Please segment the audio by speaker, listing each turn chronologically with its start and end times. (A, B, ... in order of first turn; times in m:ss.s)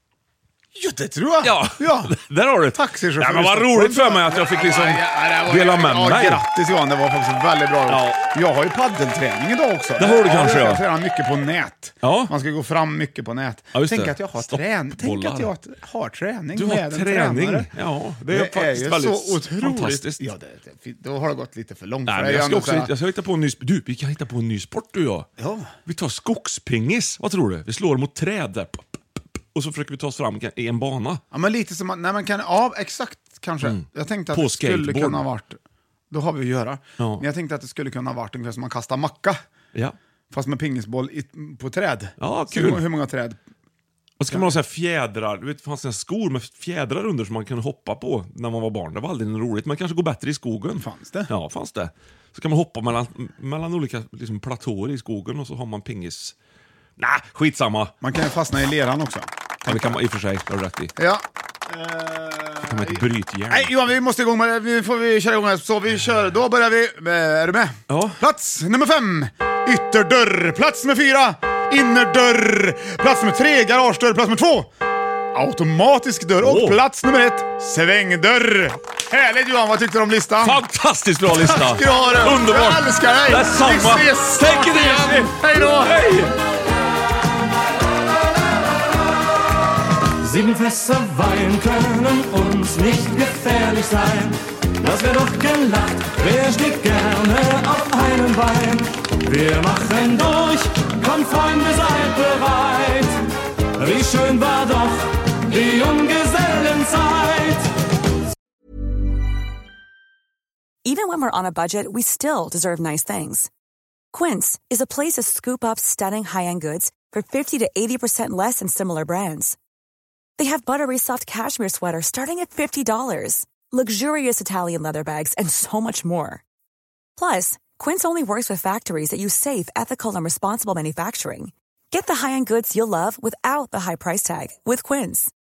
0:00.8-0:02.2 A
0:01.4-0:06.4 B
0:02.7-0:17.7 A
0:07.9-0:08.2 B
0:10.0-0:10.8 B
0:12.0-0:12.3 B
0:13.7-0:15.5 B
0:16.6-0:20.2 B
0:18.3-0:22.9 A
0:22.1-0:25.3 B
0:25.4-0:25.8 A
0:25.9-0:31.2 B
0:31.3-0:35.6 A
0:33.6-0:35.2 B
0:36.1-0:39.4 A
0:37.0-0:37.2 B
0:40.3-0:43.4 A
0:42.2-0:42.8 B
0:44.2-0:56.4 B
0:44.3-0:44.6 A
0:50.8-0:51.3 A
0:57.0-0:57.9 B
0:58.0-1:00.0 A
0:59.7-1:00.9 B
1:01.0-1:14.7 A
1:02.7-1:03.7 B
1:07.9-1:08.2 B
1:15.3-1:20.6 A
1:16.4-1:16.8 B
1:20.4-1:26.4 B
1:21.3-1:26.1 A
1:30.2-1:43.2 C
1:43.8-1:47.7 C
1:50.8-1:53.5 D
1:54.1-1:59.6 D
2:00.4-2:06.4 D
2:07.2-2:15.3 D